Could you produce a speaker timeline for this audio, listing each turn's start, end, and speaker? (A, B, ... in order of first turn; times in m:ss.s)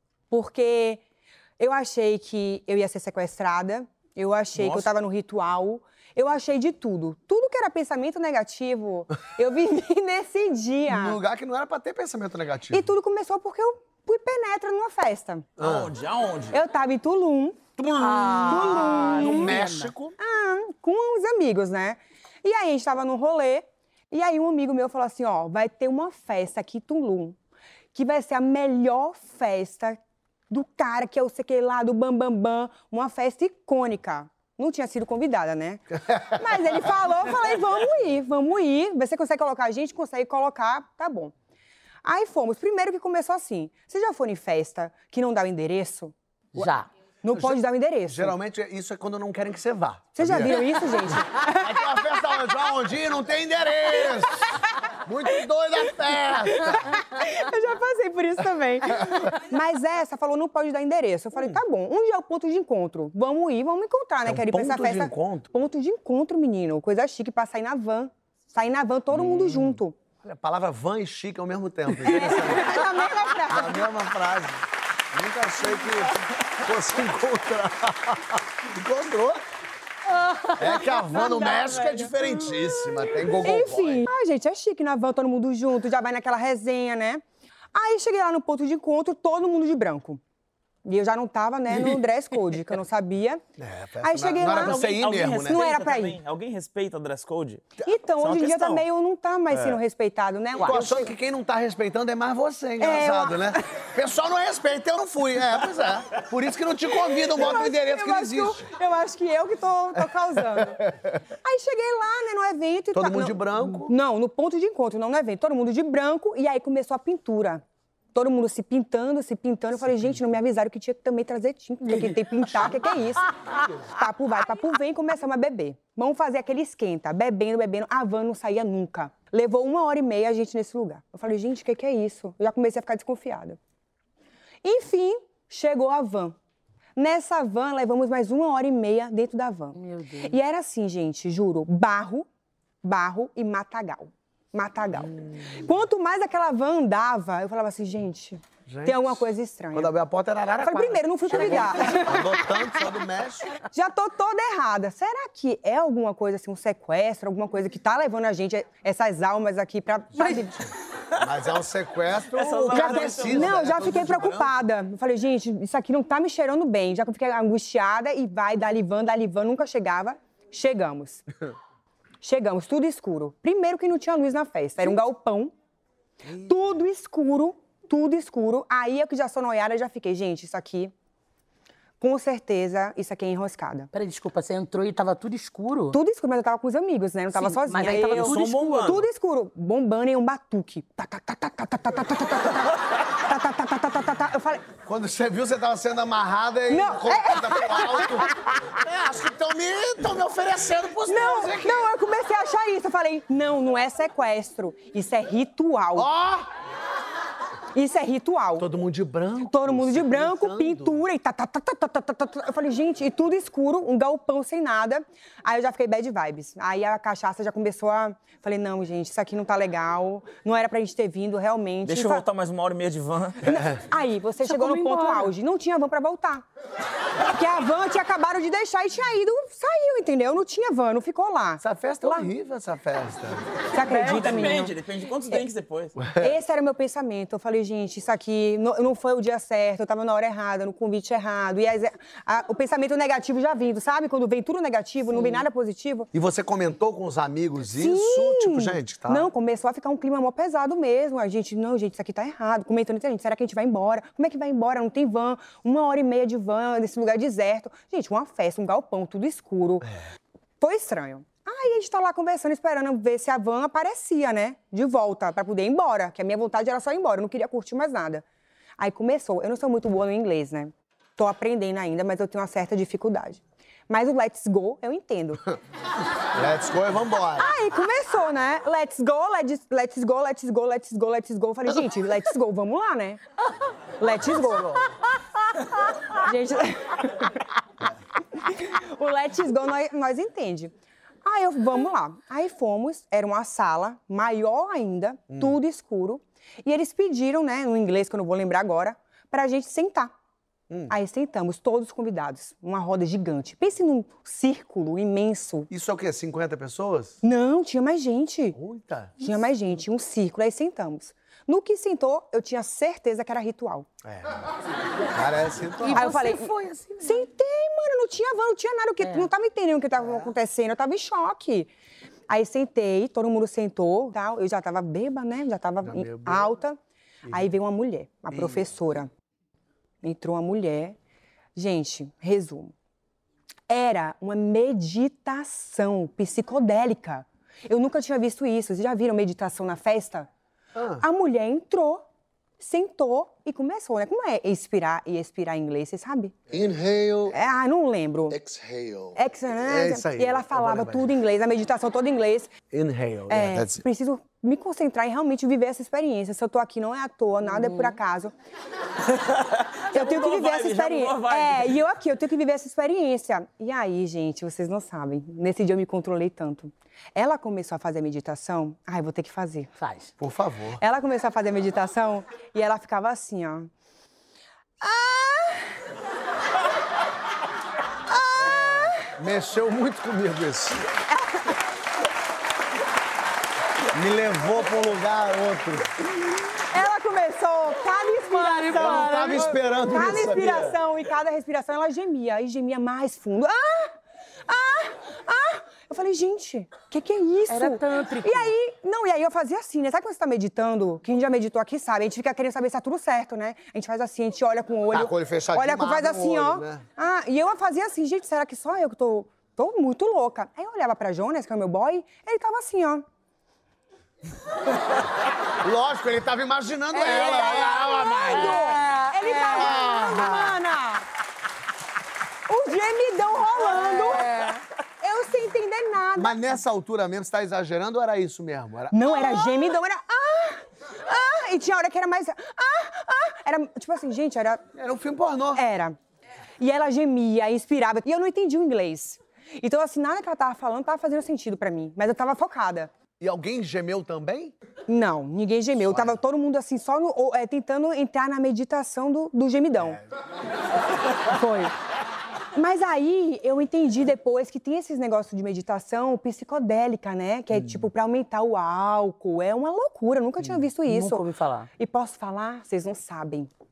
0:00.3-0:01.0 A
0:01.6-0:11.2 A
0:04.6-0:04.9 B
0:10.9-0:12.9 C
0:12.7-0:15.5 A
0:15.6-0:15.9 C
0:15.6-0:16.6 B
0:16.5-0:17.6 A
0:17.8-0:20.2 C
0:18.0-0:19.9 D
0:18.4-0:19.6 A
0:20.2-0:27.4 A
0:27.9-0:30.0 A
0:30.5-0:41.3 A
0:42.0-0:46.1 A
0:46.6-0:46.9 D
0:47.2-0:48.4 A
0:47.4-0:57.0 C
0:50.2-0:52.4 A
0:53.9-0:54.3 A
0:56.0-1:10.0 A
1:04.3-1:05.5 C
1:10.2-1:12.9 C
1:11.9-1:13.9 A
1:13.5-1:19.4 C
1:20.1-1:22.2 D
1:20.5-1:24.1 C
1:23.3-1:27.2 A
1:27.8-1:30.2 A
1:30.8-1:33.4 A
1:33.6-1:35.6 C
1:34.0-1:36.2 A
1:34.5-1:38.8 B
1:37.8-1:41.1 A
1:39.5-1:39.8 C
1:40.6-1:48.7 C
1:42.8-1:43.6 A
1:46.9-1:57.6 A
1:52.9-1:53.9 C
1:58.1-2:13.6 A
2:14.6-2:16.4 A
2:17.0-2:22.3 A
2:19.8-2:20.4 D
2:22.8-2:29.9 A
2:28.7-2:33.6 C
2:30.6-2:33.0 A
2:33.6-2:40.7 A
2:41.2-2:44.6 C
2:42.3-2:43.8 B
2:42.7-2:51.2 A
2:52.2-2:55.5 A
2:56.2-2:56.6 C
2:56.4-3:00.9 A
3:02.0-3:03.9 A
3:03.9-3:06.0 D
3:05.9-3:14.7 A
3:07.3-3:08.5 D
3:08.0-3:09.1 B
3:14.8-3:21.9 C
3:16.7-3:18.3 A
3:21.0-3:26.1 A
3:26.0-3:26.5 C
3:27.7-3:28.7 A
3:28.6-3:31.0 C
3:29.4-3:42.2 A
3:41.8-3:43.5 B
3:43.4-3:46.4 A
3:43.5-3:43.8 C
3:44.4-3:45.3 D
3:47.2-3:52.3 A
3:51.6-3:53.5 C
3:53.7-3:54.8 A
3:53.9-3:56.0 B
3:53.9-3:54.4 D
3:56.0-3:56.3 C
3:56.2-4:06.1 A
4:05.1-4:05.4 D
4:06.1-4:09.3 C
4:07.7-4:19.9 A
4:20.6-4:28.2 A
4:28.8-4:35.5 A
4:36.3-4:37.5 C
4:37.4-4:43.2 A
4:44.0-4:44.9 A
4:44.4-4:44.9 C
4:45.5-4:47.5 A
4:48.3-4:50.7 A
4:51.2-5:00.1 A
5:00.9-5:05.7 A
5:05.7-5:07.2 C
5:07.2-5:08.6 A
5:08.5-5:09.2 C
5:09.2-5:13.9 A
5:14.0-5:14.4 C
5:15.1-5:16.2 C
5:15.8-5:17.2 D
5:15.9-5:21.7 A
5:19.0-5:19.3 D
5:22.3-5:29.1 A
5:25.8-5:26.6 C
5:28.3-5:28.6 C
5:30.0-5:31.0 A
5:31.6-5:32.7 A
5:33.7-5:40.3 A
5:40.8-5:41.0 C
5:41.0-5:42.0 A
5:42.6-5:46.4 A
5:46.5-5:47.4 C
5:47.3-5:48.4 A
5:48.3-5:51.1 C
5:49.2-5:52.5 A
5:52.7-5:53.8 C
5:53.3-5:58.3 A
5:59.1-6:01.7 B
5:59.9-6:09.7 A
6:09.8-6:10.1 D
6:10.2-6:10.8 C
6:10.8-6:13.7 A
6:14.8-6:15.8 A
6:18.1-6:19.1 A
6:18.4-6:20.8 C
6:21.1-6:21.6 A
6:23.9-6:25.9 C
6:26.7-6:53.0 A
6:28.1-6:29.7 D
6:28.7-6:30.8 C
6:37.5-6:38.5 D
6:44.9-6:46.8 C
6:55.6-6:58.8 C
6:56.9-7:01.1 A
6:57.0-6:59.7 D
6:59.4-7:00.4 C
7:02.5-7:04.4 A
7:03.6-7:04.6 D
7:05.0-7:06.4 A
7:06.2-7:09.1 C
7:08.9-7:14.6 A
7:14.8-7:15.6 C
7:15.6-7:16.0 A
7:16.6-7:22.9 A
7:23.2-7:24.6 C
7:24.9-7:30.0 A
7:25.8-7:26.2 C
7:31.2-7:31.8 A
7:32.5-7:43.5 A
7:40.8-7:41.7 D